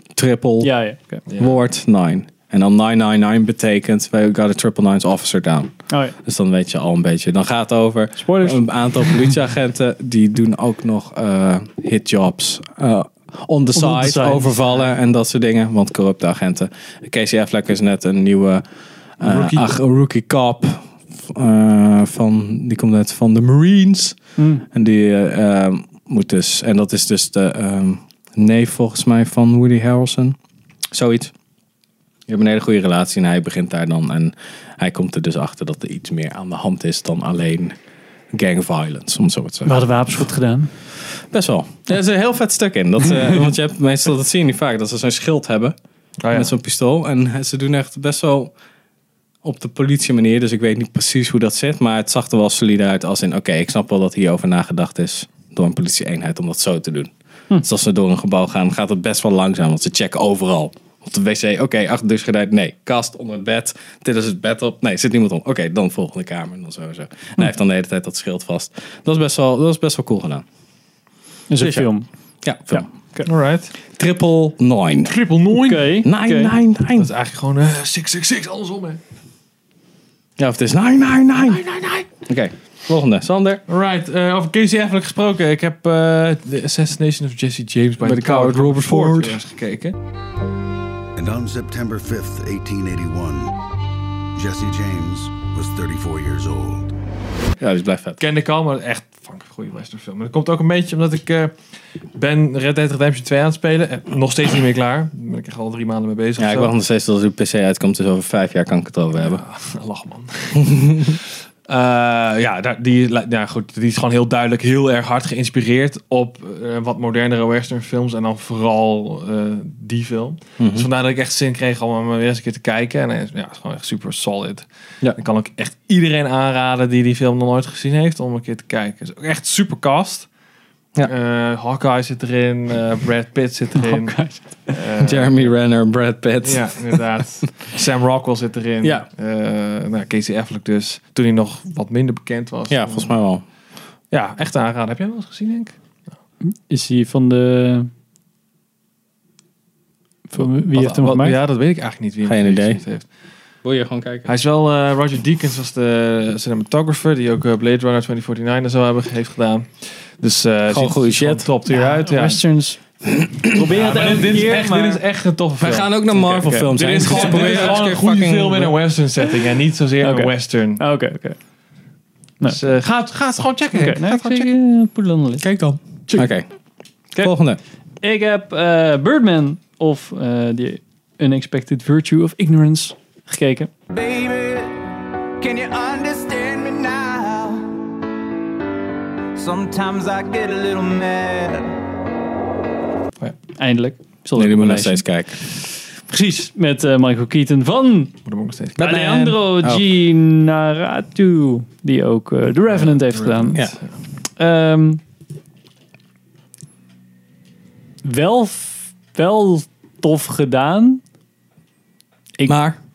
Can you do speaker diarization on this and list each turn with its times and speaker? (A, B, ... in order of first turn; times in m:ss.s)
0:00.2-0:00.7 A
0:00.6-0:01.2 B
0:01.3-0:01.6 C
0:01.4-0:18.6 A
0:05.9-0:06.1 B
0:08.2-0:09.2 B
0:13.8-0:14.6 B
0:19.2-0:30.4 A
0:19.2-0:19.7 C
0:24.4-0:24.6 B
0:30.9-0:31.3 A
0:32.3-0:37.8 A
0:38.3-0:39.8 A
0:39.6-0:40.7 B
0:41.2-0:45.8 A
0:46.2-0:46.5 C
0:46.3-0:48.5 A
0:49.4-1:10.4 A
1:11.5-1:12.1 B
1:11.6-1:11.9 A
1:12.4-1:12.9 A
1:12.7-1:13.3 B
1:13.2-1:13.7 C
1:13.9-1:15.2 A
1:15.0-1:16.0 C
1:15.5-1:16.5 B
1:16.0-1:17.1 A
1:16.9-1:19.0 C
1:20.4-1:21.6 A
1:21.4-1:22.1 C
1:22.2-1:23.6 A
1:23.7-1:30.0 C
1:28.0-1:29.4 A
1:31.2-1:33.6 D
1:34.4-1:36.9 D
1:37.6-1:38.2 A
1:38.2-1:41.6 C
1:42.1-1:46.7 C
1:46.4-1:49.4 A
1:49.1-2:10.3 C
1:50.7-1:51.1 A
2:00.6-2:00.9 A
2:11.0-2:15.6 C
2:13.8-2:14.8 B
2:15.0-2:17.0 A
2:16.4-2:23.1 C
2:22.7-2:23.4 A
2:24.1-2:25.8 C
2:26.4-2:27.9 B
2:30.3-2:31.4 B
2:30.4-2:33.1 C
2:32.2-2:32.8 A
2:33.6-2:34.3 A
2:34.2-2:42.4 C
2:40.7-2:41.5 A
2:41.7-2:42.8 B
2:43.3-2:45.0 B
2:43.6-2:45.9 C
2:45.6-2:48.8 A
2:46.1-2:47.7 B
2:46.7-2:50.8 C
2:50.0-2:51.4 B
2:52.4-2:52.7 B
2:52.4-2:54.5 C
2:53.7-2:55.5 B
2:55.4-2:56.5 A
2:57.2-2:57.6 A
2:58.0-3:03.7 B
3:03.9-3:04.8 E
3:05.4-3:07.8 E
3:09.4-3:11.8 E
3:13.6-3:18.1 B
3:14.4-3:15.4 A
3:18.2-3:18.9 C
3:18.8-3:19.8 A
3:18.8-3:23.6 B
3:22.7-3:23.9 C
3:24.4-3:25.0 B
3:28.0-3:31.0 B
3:32.4-3:32.7 B
3:32.5-3:32.8 A